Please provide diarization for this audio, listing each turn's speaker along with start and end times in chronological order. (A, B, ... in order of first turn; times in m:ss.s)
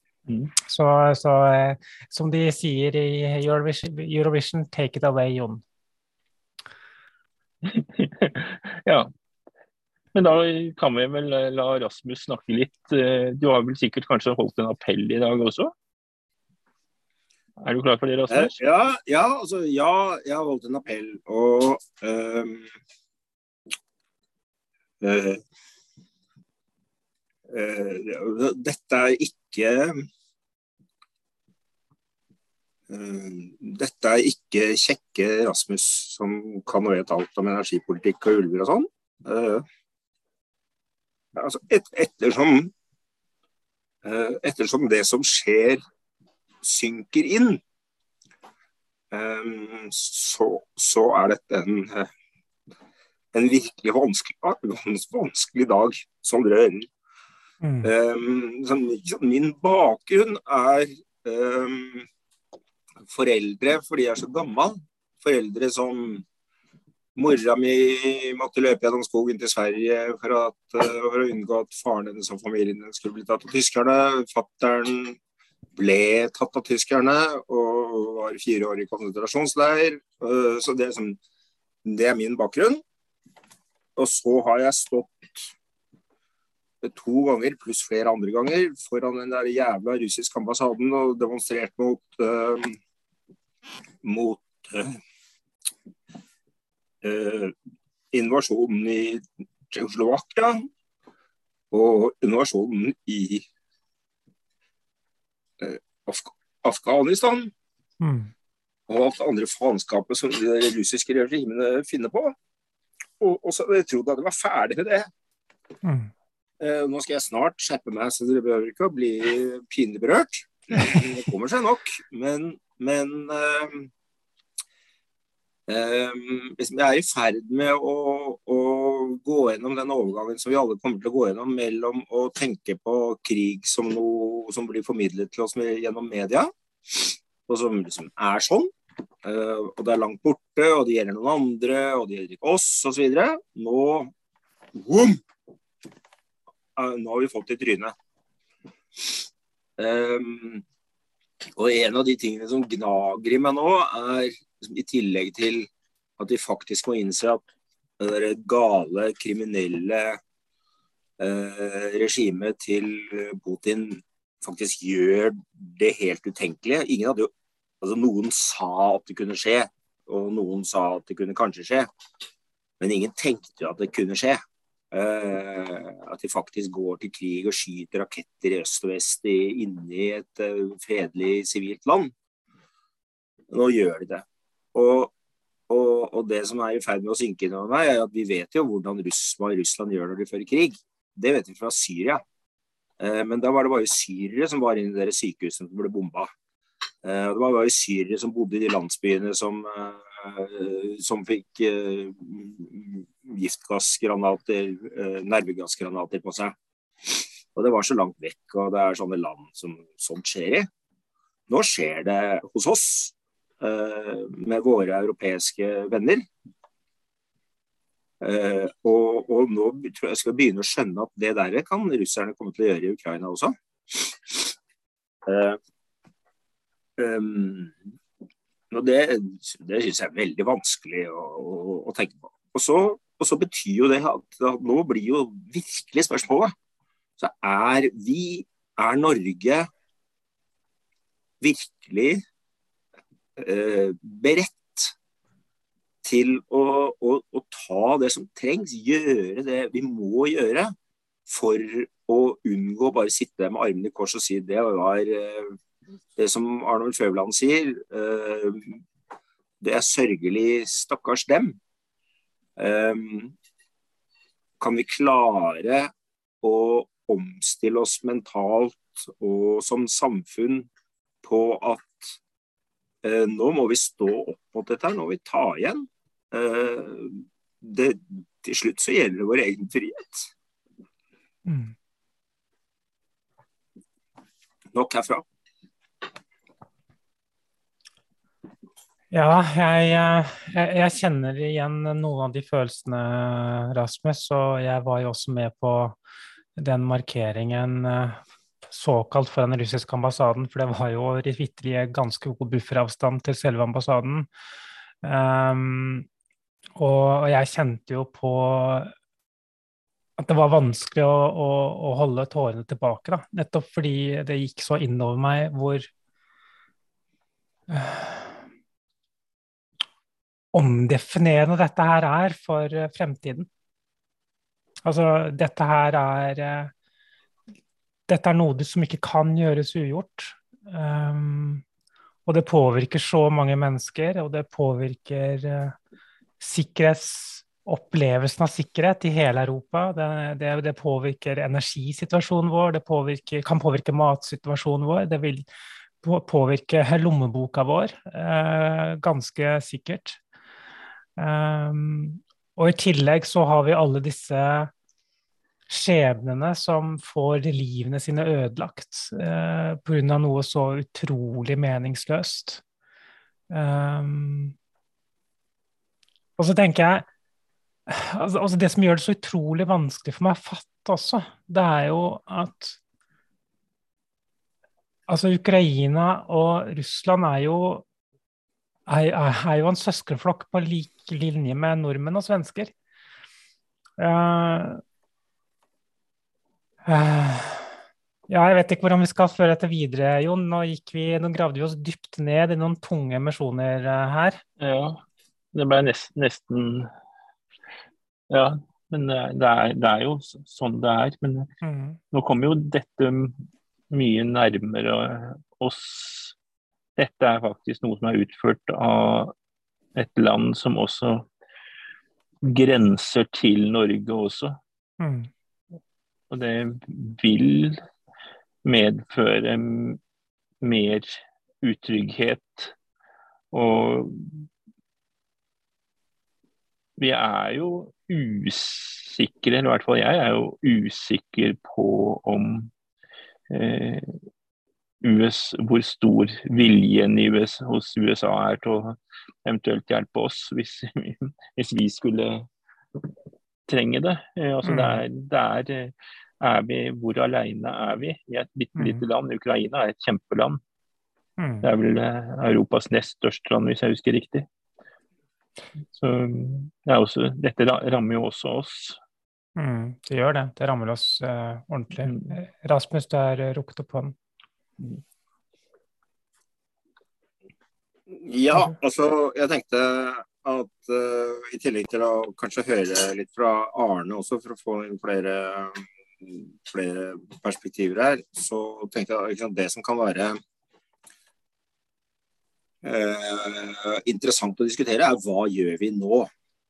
0:00.6-0:05.6 A
0:07.6-0:09.1 B
0:10.1-0:15.7 B
0:17.6-0:18.6 B
0:18.3-0:22.7 C
0:25.0-0:25.4 C
0:27.5-0:30.0 C
0:32.9-0:39.6 C
0:41.4-0:42.7 C
0:44.0-0:45.8 C
0:46.6-0:47.6 C
0:49.1-0:52.1 C
0:53.3-0:56.9 C
0:57.6-0:57.9 A
0:57.8-1:02.1 C
1:03.1-1:06.2 C
1:07.2-1:15.2 C
1:15.8-1:21.2 C
1:21.8-1:22.8 C
1:24.0-1:25.5 C
1:26.8-1:32.8 C
1:34.0-1:34.9 C
1:37.0-1:37.5 C
1:38.1-1:40.7 C
1:41.7-1:43.4 C
1:45.6-1:47.5 C
1:48.0-1:48.3 A
1:48.9-1:52.3 C
1:53.2-1:55.1 C
1:55.8-1:56.1 A
1:56.6-2:03.9 C
2:05.7-2:18.7 C
2:19.2-2:24.1 C
2:24.7-2:25.2 C
2:26.8-2:27.9 C
2:29.8-2:30.6 C
2:31.5-2:37.4 C
2:38.0-2:40.2 C
2:41.2-2:47.3 C
2:47.8-2:51.9 C
2:52.8-2:54.4 C
2:54.9-3:02.1 C
3:03.5-3:05.1 C
3:05.7-3:12.2 C
3:13.0-3:16.3 C
3:17.0-3:26.5 C
3:27.5-3:30.7 C
3:31.5-3:36.3 C
3:38.2-3:44.5 C
3:45.2-3:45.6 C
3:47.0-3:47.8 C
3:48.7-3:56.5 C
3:57.2-3:59.7 C
4:01.4-4:02.2 C
4:03.4-4:04.9 C
4:06.0-4:10.7 C
4:11.3-4:15.6 C
4:16.2-4:18.8 C
4:19.6-4:21.6 C
4:22.6-4:23.3 C
4:24.6-4:25.9 C
4:26.4-4:30.7 C
4:31.2-4:32.2 C
4:33.0-4:40.3 C
4:41.4-4:41.7 A
4:44.7-4:45.2 C
4:49.1-4:56.0 A
4:56.6-5:04.3 A
5:05.0-5:06.0 A
5:06.8-5:08.9 A
5:10.2-5:15.9 A
5:17.7-5:18.3 A
5:20.5-5:23.5 A
5:24.8-5:26.7 A
5:28.1-5:31.6 A
5:32.2-5:35.8 A
5:36.4-5:45.4 A
5:46.0-5:50.2 A
5:51.2-5:54.7 A
5:55.7-6:02.6 A
6:03.5-6:04.5 A
6:06.4-6:07.0 A
6:07.9-6:12.8 A
6:15.1-6:17.8 A
6:18.9-6:22.7 A
6:24.0-6:24.8 A
6:26.8-6:27.7 A
6:28.3-6:34.4 A
6:34.6-6:35.0 B
6:35.5-6:36.9 B
6:38.3-6:41.5 B
6:41.6-6:42.0 A
6:42.1-6:46.3 B
6:47.0-6:49.3 B
6:49.9-6:51.2 B
6:52.4-6:54.6 B
6:55.0-6:55.3 A
6:56.3-6:57.8 B
6:58.6-7:00.0 B
7:00.6-7:02.7 B
7:03.5-7:04.5 B
7:07.0-7:12.7 B
7:13.5-7:14.1 B
7:15.0-7:22.5 B
7:23.7-7:30.6 B
7:24.6-7:25.0 A
7:28.8-7:29.0 A
7:31.4-7:31.6 A
7:31.6-7:34.5 B
7:35.9-7:39.0 B
7:39.6-7:44.1 A
7:42.0-7:42.3 B
7:48.1-8:00.4 C
8:02.8-8:06.3 C